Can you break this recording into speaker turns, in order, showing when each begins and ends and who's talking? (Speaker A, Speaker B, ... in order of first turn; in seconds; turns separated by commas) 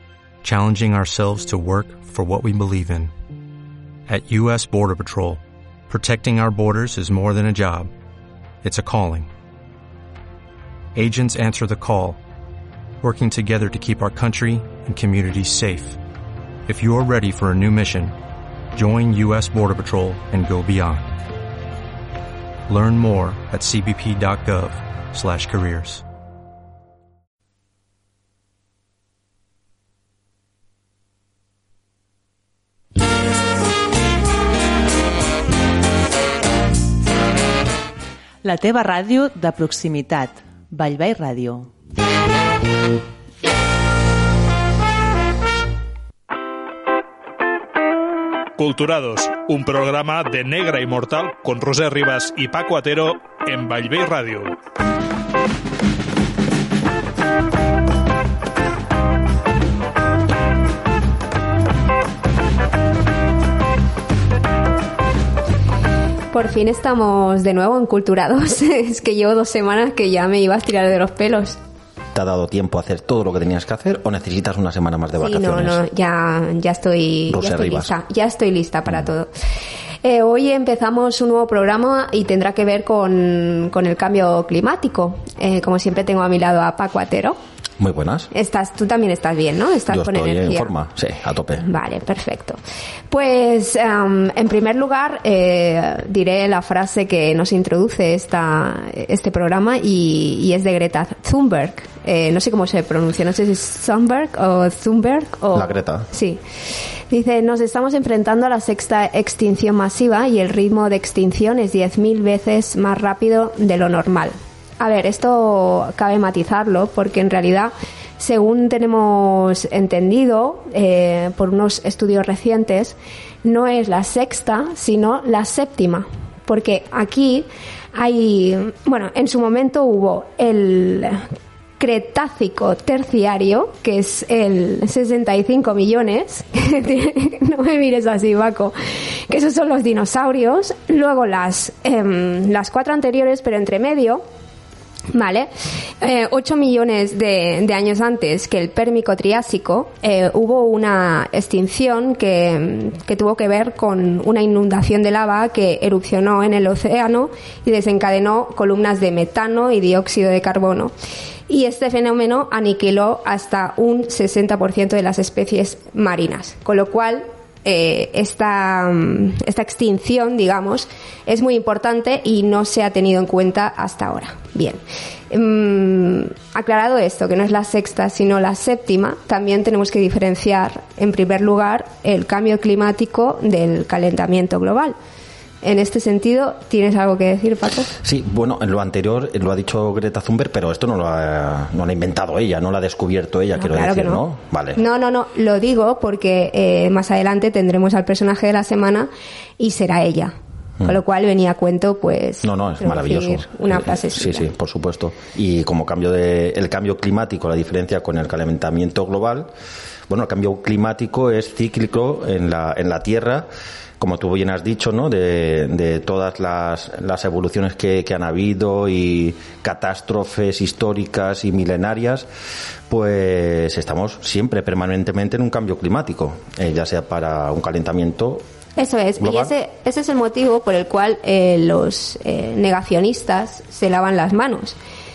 Speaker A: 0.4-3.1, Speaker A: 4.1-7.9, Speaker A: 8.6-9.3, Speaker A: 10.9-12.2, Speaker A: 13.0-16.0, Speaker A: 16.7-18.1, Speaker A: 18.7-21.2, Speaker A: 22.7-26.0, Speaker B: 38.4-41.7, Speaker C: 48.6-54.5, Speaker D: 66.3-71.6, Speaker E: 72.1-75.8, Speaker D: 75.2-79.3, Speaker E: 77.3-77.9, Speaker D: 80.0-87.4, Speaker E: 87.8-88.3, Speaker D: 88.3-90.7, Speaker E: 89.9-91.7, Speaker D: 91.6-92.6, Speaker D: 93.1-106.4, Speaker E: 105.5-106.1, Speaker D: 107.1-131.3, Speaker D: 131.8-144.2, Speaker D: 145.1-145.5, Speaker D: 146.0-160.9, Speaker D: 161.5-185.0, Speaker D: 185.6-188.0, Speaker E: 188.0-194.8, Speaker D: 193.6-194.2, Speaker D: 194.8-204.5, Speaker E: 202.4-209.5, Speaker E: 210.1-222.3, Speaker E: 222.9-228.4, Speaker D: 228.8-234.8, Speaker E: 229.2-229.5